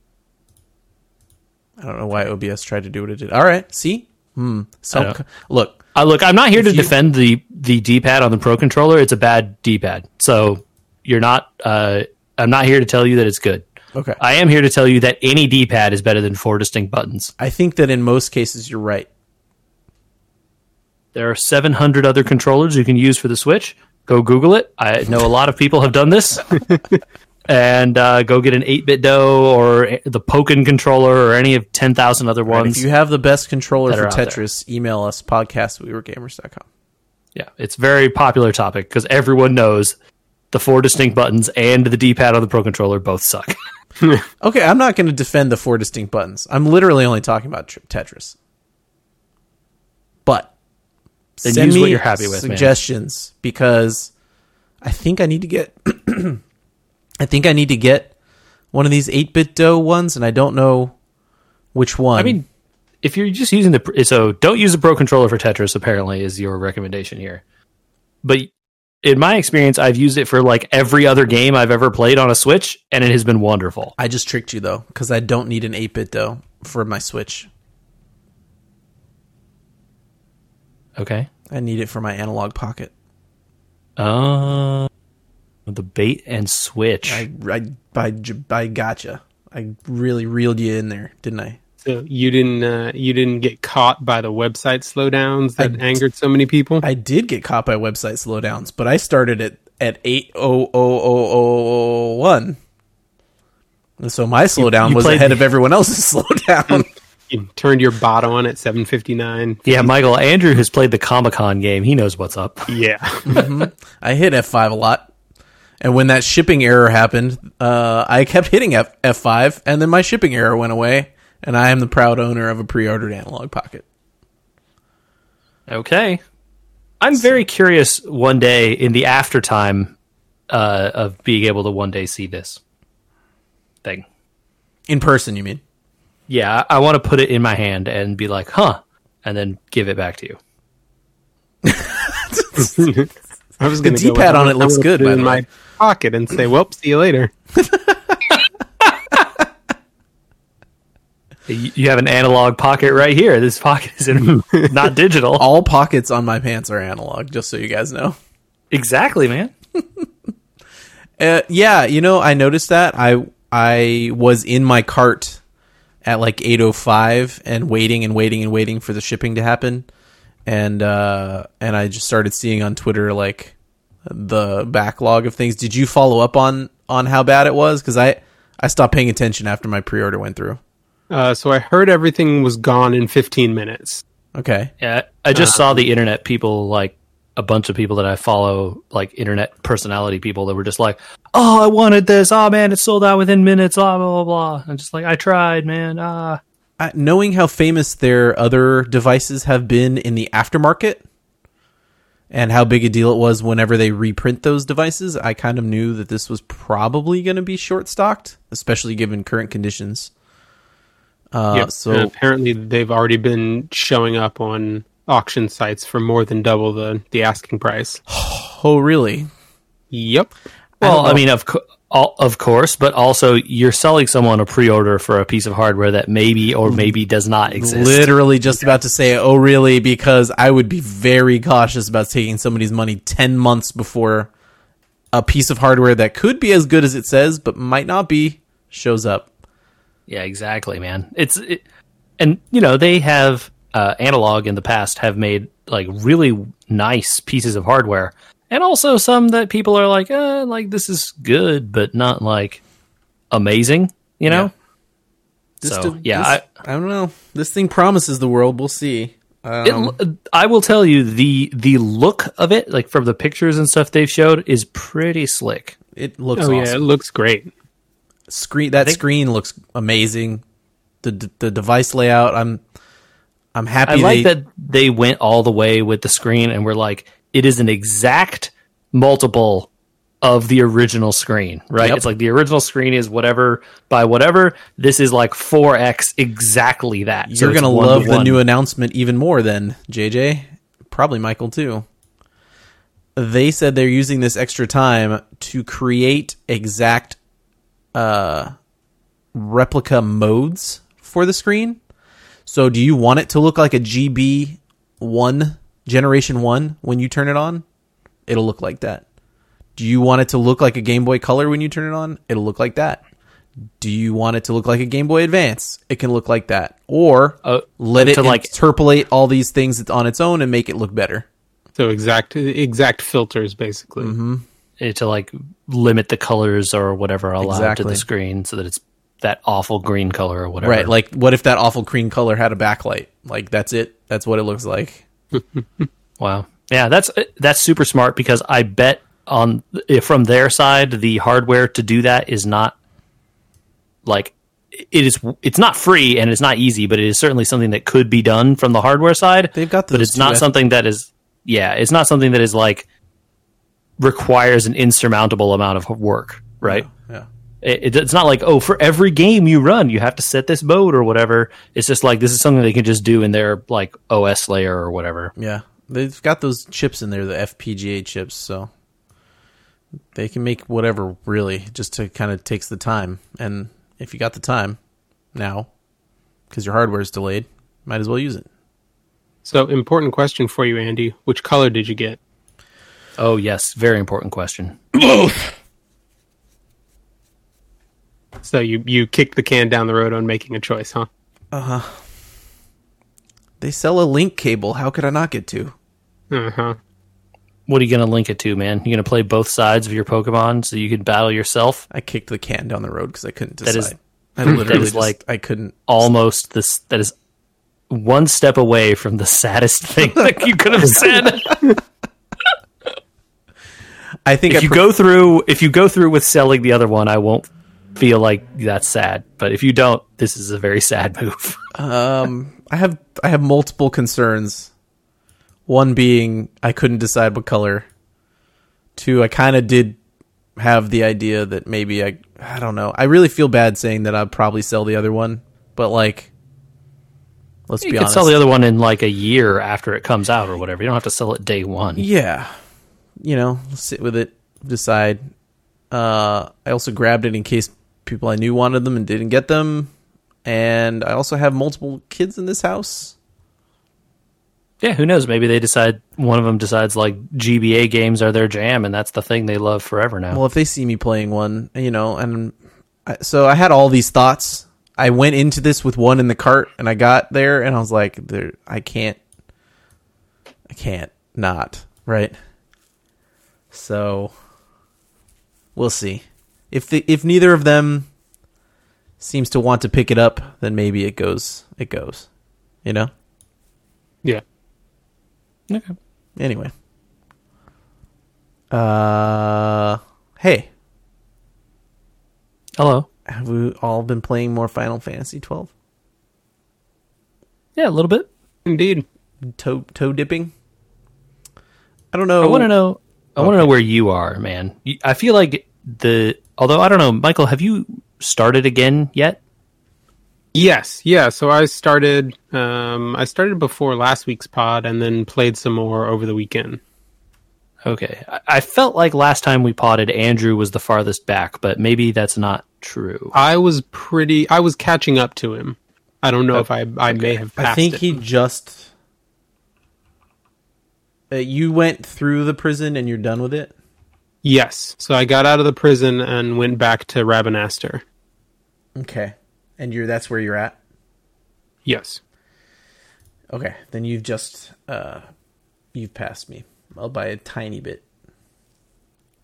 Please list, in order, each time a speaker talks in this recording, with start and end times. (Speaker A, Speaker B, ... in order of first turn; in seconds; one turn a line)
Speaker A: 1.8-5.8
Speaker B: 5.9-13.6
Speaker A: 6.5-6.9
Speaker A: 13.9-14.2
Speaker B: 14.2-17.3
Speaker A: 17.4-19.1
Speaker B: 21.1-26.6
Speaker B: 27.5-32.9
Speaker A: 32.5-36.6
Speaker B: 33.9-34.4
Speaker B: 37.3-39.9
Speaker B: 40.5-43.5
Speaker A: 44.4-48.4
Speaker A: 50.2-50.5
Speaker A: 51.4-54.1
Speaker B: 51.4-52.7
Speaker A: 54.8-56.4
Speaker A: 57.2-58.1
Speaker A: 58.7-60.9
Speaker A: 61.7-62.4
Speaker B: 62.2-62.4
Speaker B: 63.0-67.4
Speaker B: 68.2-68.5
Speaker B: 69.0-73.9
Speaker A: 74.0-77.5
Speaker B: 81.0-81.3
Speaker A: 81.5-82.9
Speaker B: 84.0-84.9
Speaker B: 85.7-87.2
Speaker A: 87.0-91.6
Speaker C: 91.8-96.8
Speaker A: 95.6-96.0
Speaker A: 96.8-102.6
Speaker A: 104.0-106.9
Speaker B: 104.5-105.4
Speaker C: 106.7-109.8
Speaker B: 109.7-112.8
Speaker C: 112.7-113.4
Speaker A: 113.3-115.1
Speaker A: 115.8-123.8
Speaker B: 125.7-126.2
Speaker B: 127.0-129.9
Speaker B: 130.5-132.6
Speaker A: 134.9-135.6
Speaker B: 136.3-140.4
Speaker A: 141.6-142.9
Speaker C: 142.6-147.3
Speaker A: 143.8-145.4
Speaker A: 147.6-148.2
Speaker B: 151.5-155.4
Speaker A: 155.4-158.2
Speaker B: 158.7-159.5
Speaker A: 159.8-160.0
Speaker A: 161.2-165.4
Speaker A: 166.0-169.9
Speaker A: 170.4-180.6
Speaker C: 181.1-184.0
Speaker A: 184.3-184.7
Speaker B: 184.8-196.4
Speaker C: 185.3-185.6
Speaker A: 196.8-201.0
Speaker A: 202.3-210.1
Speaker A: 211.3-212.1
Speaker C: 211.5-218.0
Speaker A: 218.1-219.3
Speaker C: 219.9-220.3
Speaker A: 220.8-221.2
Speaker B: 220.8-228.1
Speaker A: 226.6-227.0
Speaker A: 227.5-234.3
Speaker A: 235.1-239.3
Speaker B: 240.1-241.6
Speaker B: 242.2-252.6
Speaker B: 253.3-254.5
Speaker A: 255.6-259.9
Speaker B: 255.6-256.4
Speaker B: 259.6-265.8
Speaker A: 265.9-266.8
Speaker C: 266.4-267.5
Speaker A: 268.3-270.4
Speaker A: 271.0-272.6
Speaker A: 273.5-274.3
Speaker B: 273.9-279.7
Speaker B: 280.2-288.4
Speaker A: 281.8-282.0
Speaker A: 287.3-291.9
Speaker A: 293.1-297.2
Speaker A: 297.9-298.5
Speaker A: 299.3-301.8
Speaker A: 302.4-307.6
Speaker A: 308.3-309.0
Speaker A: 309.8-313.0
Speaker A: 313.8-321.2
Speaker B: 317.4-318.5
Speaker C: 321.8-324.1
Speaker A: 324.0-324.4
Speaker B: 324.8-330.9
Speaker A: 327.4-328.0
Speaker A: 330.6-335.0
Speaker C: 335.3-335.8
Speaker B: 336.2-342.7
Speaker B: 344.0-352.9
Speaker A: 349.5-350.5
Speaker B: 354.0-356.9
Speaker A: 356.6-357.3
Speaker B: 357.6-365.3
Speaker A: 365.4-368.7
Speaker A: 370.1-374.8
Speaker A: 375.3-375.7
Speaker A: 376.5-378.5
Speaker C: 379.4-382.2
Speaker B: 383.2-384.8
Speaker A: 384.9-385.5
Speaker C: 388.4-391.1
Speaker A: 391.5-392.0
Speaker A: 393.6-395.7
Speaker C: 396.3-396.8
Speaker B: 397.7-401.8
Speaker A: 401.9-406.1
Speaker B: 403.6-405.2
Speaker B: 405.9-407.1
Speaker B: 407.9-411.7
Speaker A: 414.2-414.8
Speaker B: 414.5-421.6
Speaker A: 421.7-424.7
Speaker A: 425.7-427.9
Speaker A: 428.9-430.0
Speaker A: 430.6-436.3
Speaker A: 437.7-438.4
Speaker B: 437.8-442.1
Speaker A: 442.0-442.5
Speaker A: 443.2-445.2
Speaker A: 445.9-449.9
Speaker A: 450.4-453.1
Speaker B: 454.8-460.4
Speaker A: 460.3-469.2
Speaker A: 470.7-472.3
Speaker A: 473.7-474.3
Speaker A: 475.7-478.1
Speaker A: 479.2-482.3
Speaker A: 482.8-483.1
Speaker B: 485.7-485.9
Speaker A: 486.4-486.7
Speaker A: 488.7-490.7
Speaker B: 492.8-493.1
Speaker A: 493.2-495.7
Speaker B: 497.8-498.3
Speaker C: 498.6-499.0
Speaker A: 499.4-500.5
Speaker A: 502.1-502.7
Speaker B: 502.4-509.4
Speaker A: 503.4-503.7
Speaker C: 510.5-516.8
Speaker B: 517.8-523.3
Speaker C: 523.3-528.1
Speaker B: 526.5-527.4
Speaker A: 527.6-528.9
Speaker A: 531.3-533.7
Speaker C: 534.4-538.0
Speaker A: 539.0-540.8
Speaker C: 541.8-542.2
Speaker A: 543.5-545.2
Speaker A: 545.9-548.0